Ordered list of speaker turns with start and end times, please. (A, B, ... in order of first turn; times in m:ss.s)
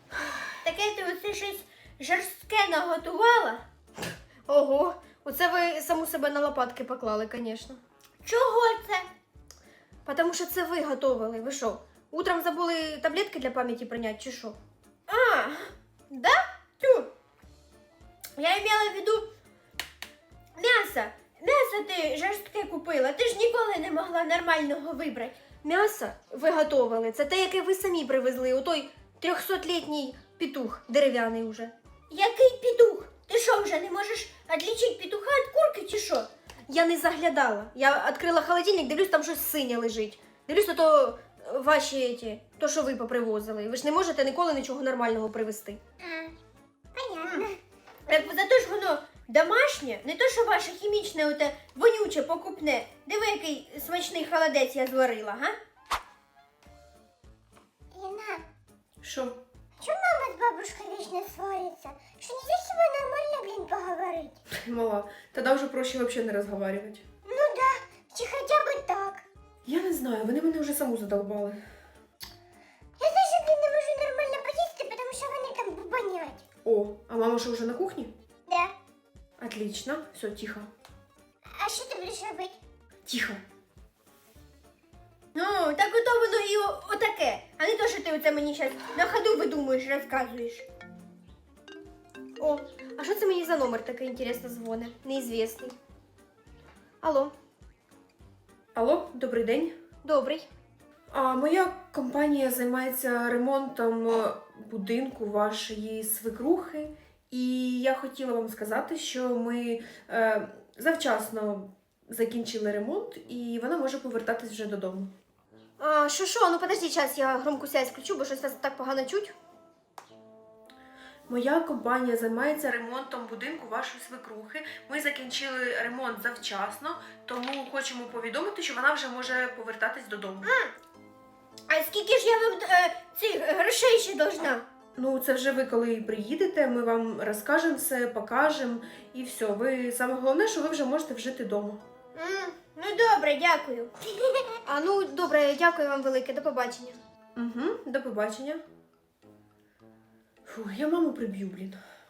0:00.6-0:03.6 A
0:04.5-0:07.8 A
0:08.2-0:08.9 B
0:10.0-0:14.6 A
0:15.1-0:17.1 A
0:18.4-0:19.3 A
0:20.6-0:45.8 A
0:46.0-0:46.4 B
0:46.9-0:47.6 B
0:48.1-0:55.5 A
0:57.9-0:58.4 B
0:59.0-0:59.4 C
0:59.8-1:04.4 B
1:04.5-1:07.0 C
1:07.2-1:09.2 B
1:09.6-1:11.6 C
1:13.0-1:16.4 B
1:16.6-1:18.1 C
1:18.5-1:18.7 B
1:19.4-1:20.7 C
1:21.5-1:22.5 B
1:23.0-1:23.4 C
1:25.3-1:30.6 A
1:32.4-1:35.8 A
1:37.0-1:37.3 A
1:38.7-1:39.7 C
1:40.0-1:40.5 A
1:41.1-1:55.1 C
1:55.8-1:59.3 A
2:01.3-2:10.5 C
2:10.4-2:10.7 A
2:11.7-2:14.6 A
2:15.0-2:21.8 C
2:22.2-2:23.9 A
2:24.6-2:27.0 A
2:27.4-2:28.6 C
2:30.4-2:31.8 C